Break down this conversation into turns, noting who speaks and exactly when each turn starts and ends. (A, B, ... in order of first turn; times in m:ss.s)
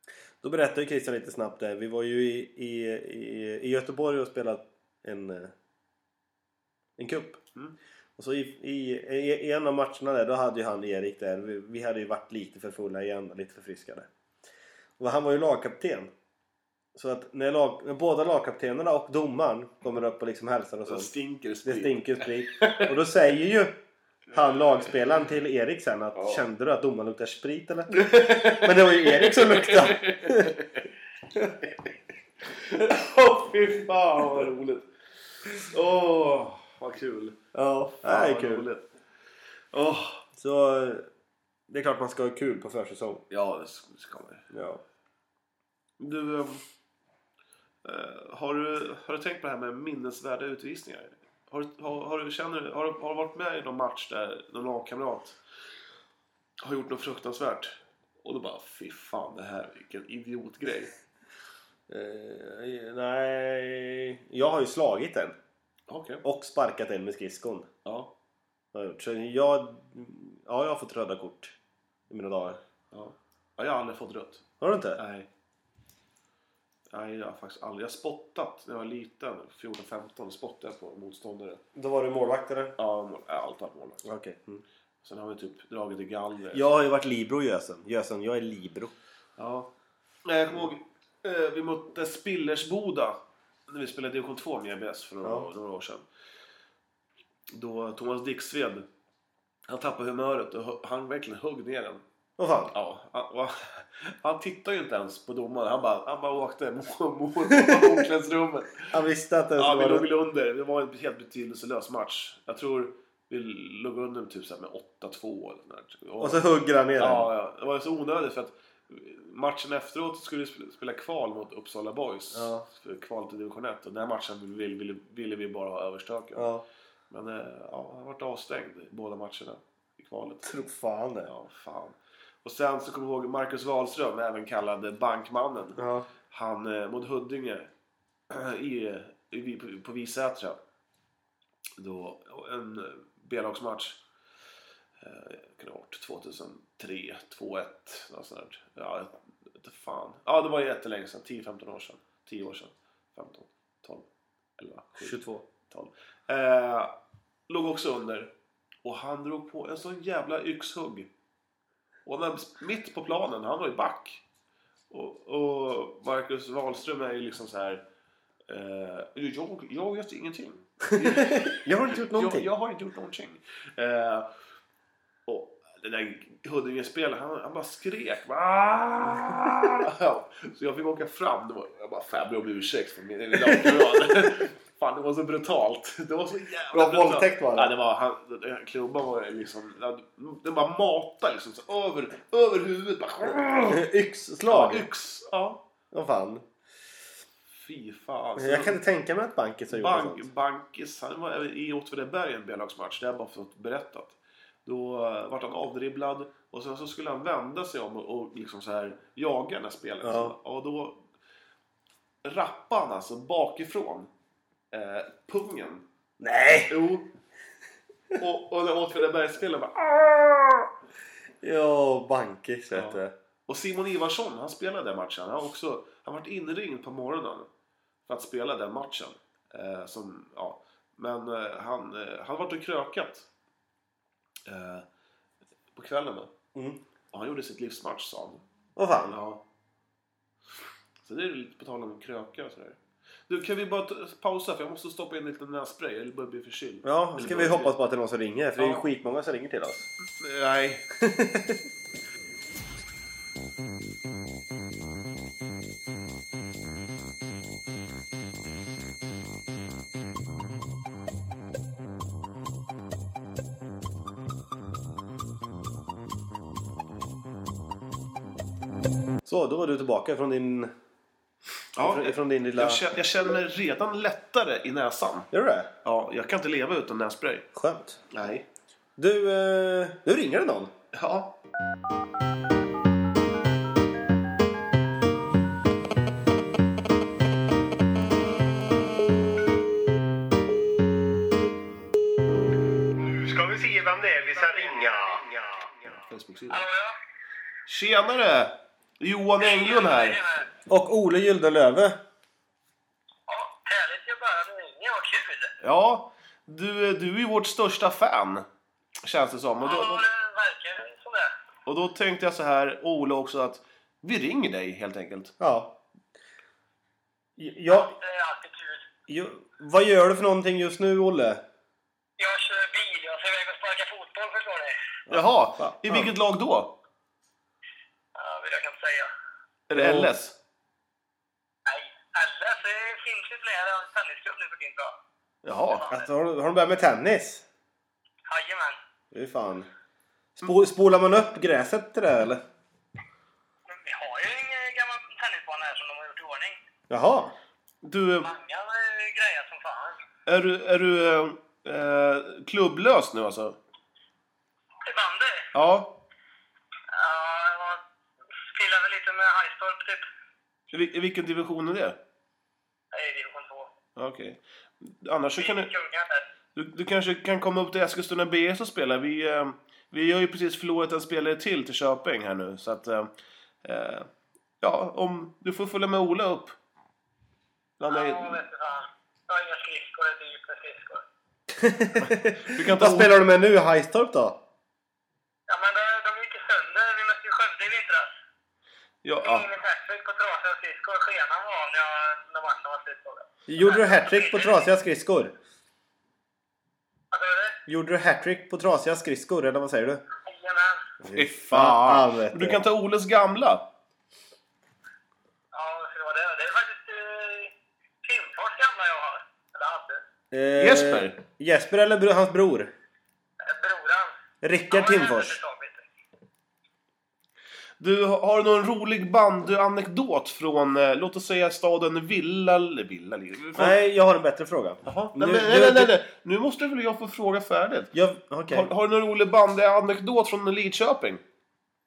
0:00.4-0:05.5 A
0:07.0-0:07.4 A
0:08.2-0:14.1 A
0:15.0-0:16.1 A
0:16.9-0:21.1 A
0:20.9-0:22.9 B
0:21.6-0:23.8 A
0:24.3-0:30.5 A
0:26.2-0:26.4 B
0:27.9-0:30.8 B
0:32.5-0:34.9 B
0:35.6-0:37.4 B
0:37.5-0:38.7 A
0:38.0-0:38.8 B
0:39.7-0:40.2 B
0:40.4-0:41.0 A
0:41.7-0:43.2 A
0:43.3-0:44.4 B
0:44.5-0:44.8 A
0:46.0-0:46.6 B
0:47.8-0:55.4 B
0:56.6-1:00.9 B
1:01.9-1:05.4 A
1:05.9-1:06.2 B
1:06.2-1:07.7 A
1:07.8-1:08.1 B
1:08.7-1:11.6 A
1:12.1-1:12.6 A
1:12.9-1:14.4 B
1:14.6-1:15.0 A
1:15.0-1:15.3 B
1:16.9-1:21.6 B
1:21.7-1:22.8 A
1:22.8-1:24.1 B
1:24.0-1:24.6 A
1:25.0-1:26.7 B
1:26.5-1:28.9 A
1:29.4-1:29.7 B
1:30.2-1:36.0 B
1:37.5-1:38.9 B
1:39.7-1:42.0 B
1:42.4-1:42.7 A
1:42.7-1:49.0 B
1:47.5-1:48.1 A
1:48.9-1:50.1 A
1:49.6-1:56.4 B
1:56.2-1:57.3 A
1:57.0-2:06.5 B
2:02.3-2:02.7 A
2:06.4-2:06.6 A
2:07.1-2:10.5 B
2:10.4-2:11.3 A
2:11.2-2:17.7 B
2:15.8-2:16.1 A
2:18.3-2:20.6 B
2:21.8-2:24.0 B
2:25.0-2:34.1 B
2:34.6-2:37.0 B
2:35.0-2:35.4 A
2:37.5-2:38.3 B
2:38.8-2:41.1 B
2:42.0-2:44.2 B
2:44.9-2:47.8 B
2:48.5-2:54.3 B
2:50.9-2:52.5 A
2:55.2-3:13.8 B
3:03.4-3:04.2 A
3:06.7-3:07.7 A
3:13.7-3:14.9 A
3:14.5-3:15.6 B
3:15.9-3:16.4 A
3:17.5-3:18.8 B
3:18.4-3:20.2 A
3:19.7-3:31.0 B
3:30.0-3:30.3 A
3:32.2-3:34.1 B
3:34.7-3:35.8 B
3:36.2-3:36.8 A
3:36.7-3:37.1 B
3:38.2-3:40.7 B
3:41.4-3:43.1 A
3:42.7-3:47.5 B
3:48.1-3:53.3 B
3:54.5-3:54.9 B
3:55.7-3:56.3 B
3:56.5-3:56.8 A
3:57.1-3:58.4 B
3:58.8-3:59.2 A
3:59.1-3:59.4 B
4:01.0-4:07.8 B
4:06.8-4:09.9 A
4:08.6-4:08.8 B
4:10.2-4:10.9 B
4:11.0-4:11.6 A
4:29.2-4:30.7 A
4:31.8-4:35.3 B
4:31.8-4:32.8 A
4:35.3-4:35.7 A
4:35.8-4:37.5 B
4:37.5-4:38.0 A
4:38.1-4:38.5 B
4:39.0-4:40.7 A
4:40.9-4:41.4 B
4:52.9-4:55.8 A
4:56.1-4:56.6 B
4:56.5-4:57.0 C
4:57.6-5:00.2 B
4:59.4-5:00.5 C
5:00.7-5:02.0 A
5:03.3-5:05.5 C
5:05.6-5:08.4 B
5:09.0-5:10.0 B
5:09.6-5:11.3 C
5:11.6-5:15.3 B
5:15.4-5:15.8 A
5:17.4-5:17.9 A
5:17.7-5:18.8 C
5:19.1-5:21.4 A
5:22.2-5:24.7 C
5:25.1-5:26.1 A
5:25.1-5:26.7 B
5:28.1-5:29.1 C
5:29.7-5:30.4 B
5:29.7-5:30.1 A
5:31.6-5:34.9 C
5:35.4-5:35.9 B
5:35.7-5:36.0 C
5:35.9-5:37.4 A
5:38.3-5:38.8 C
5:39.1-5:39.7 A
5:40.4-5:42.4 A
5:43.7-5:46.6 C
5:46.9-5:47.4 A
5:47.8-5:48.3 B
5:48.2-5:50.0 C
5:50.2-5:53.6 B
5:54.8-5:55.4 C
5:55.5-5:56.0 B
5:56.9-5:57.8 C
5:58.5-6:00.0 C
6:00.7-6:02.0 B
6:02.9-6:03.7 C
6:04.0-6:05.7 B
6:05.4-6:06.2 C
6:06.5-6:13.1 B
6:13.6-6:14.1 B
6:14.6-6:16.5 B
6:17.8-6:18.3 B
6:17.9-6:21.0 C
6:21.5-6:24.4 A
6:22.0-6:23.1 B
6:25.5-6:28.1 C
6:29.0-6:29.5 B
6:29.2-6:34.6 C
6:33.5-6:35.3 A
6:37.1-6:37.6 C
6:37.7-6:40.0 A
6:40.2-6:40.8 C
6:41.0-6:42.6 A
6:41.0-6:43.6 B
6:45.5-6:47.5 C
6:48.0-6:50.0 C
6:50.3-6:52.7 A
6:50.6-6:51.2 B
6:53.4-6:54.1 C
6:54.4-6:55.4 A
6:54.7-6:55.8 C
6:57.8-7:03.8 B
7:03.6-7:06.0 A
7:04.8-7:07.9 B
7:07.9-7:08.7 A
7:08.5-7:11.2 B